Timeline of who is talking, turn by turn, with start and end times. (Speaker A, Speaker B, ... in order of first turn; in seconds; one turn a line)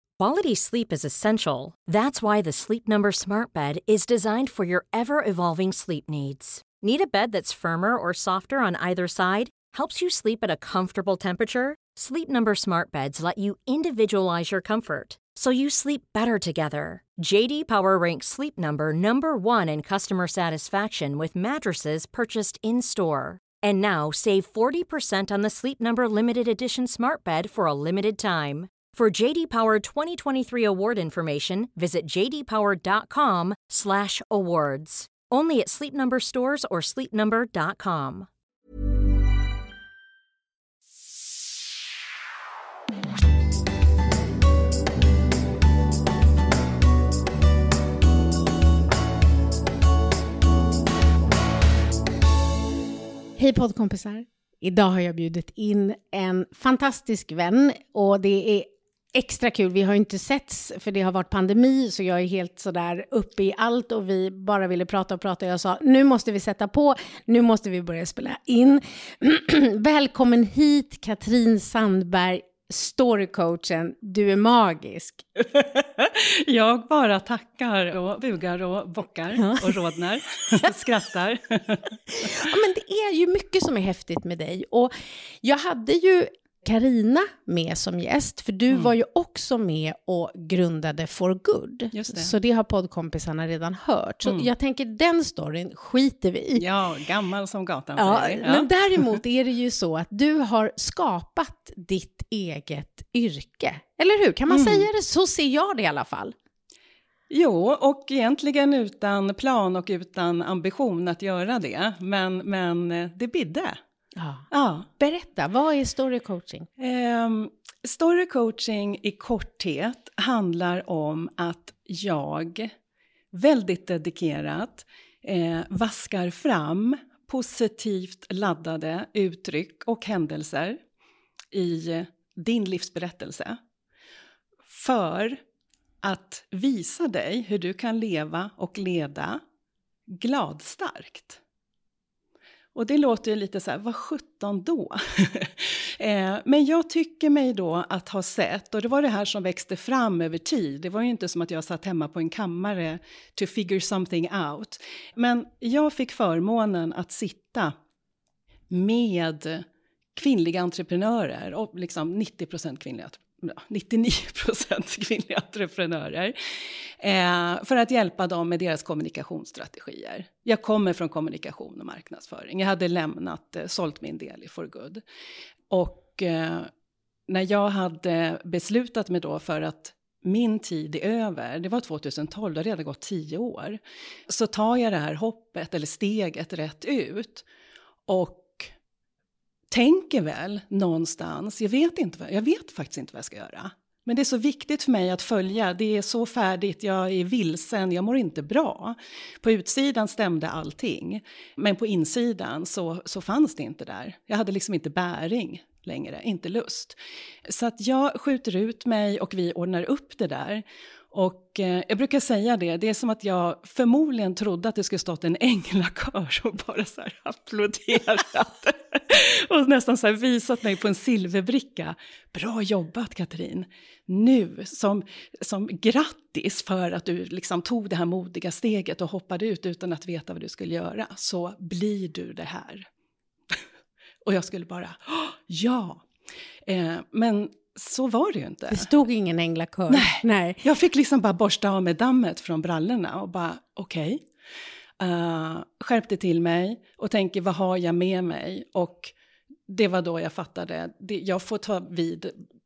Speaker A: 0.2-38.3
Speaker B: 53.4-75.3
Speaker C: 75.5-82.3
Speaker B: 79.4-79.8
Speaker B: 82.2-96.7
Speaker C: 91.9-92.3
Speaker C: 96.6-98.7
Speaker B: 98.0-106.3
Speaker C: 104.5-104.9
Speaker C: 107.3-113.8
Speaker B: 114.2-114.5
Speaker C: 114.5-114.9
Speaker B: 115.0-116.7
Speaker C: 116.8-122.7
Speaker C: 123.3-130.8
Speaker C: 131.5-133.6
Speaker C: 134.7-135.4
Speaker C: 136.0-139.4
Speaker C: 140.1-141.4
Speaker C: 142.8-157.7
Speaker C: 158.7-159.7
Speaker C: 160.2-166.3
Speaker C: 167.0-175.0
Speaker C: 175.7-176.7
Speaker C: 177.3-187.4
Speaker C: 188.1-188.7
Speaker C: 189.7-232.9
Speaker C: 234.2-236.0
Speaker C: 236.7-238.9
Speaker B: 238.7-240.6
Speaker C: 239.9-244.2
Speaker C: 245.0-249.1
Speaker C: 249.7-252.4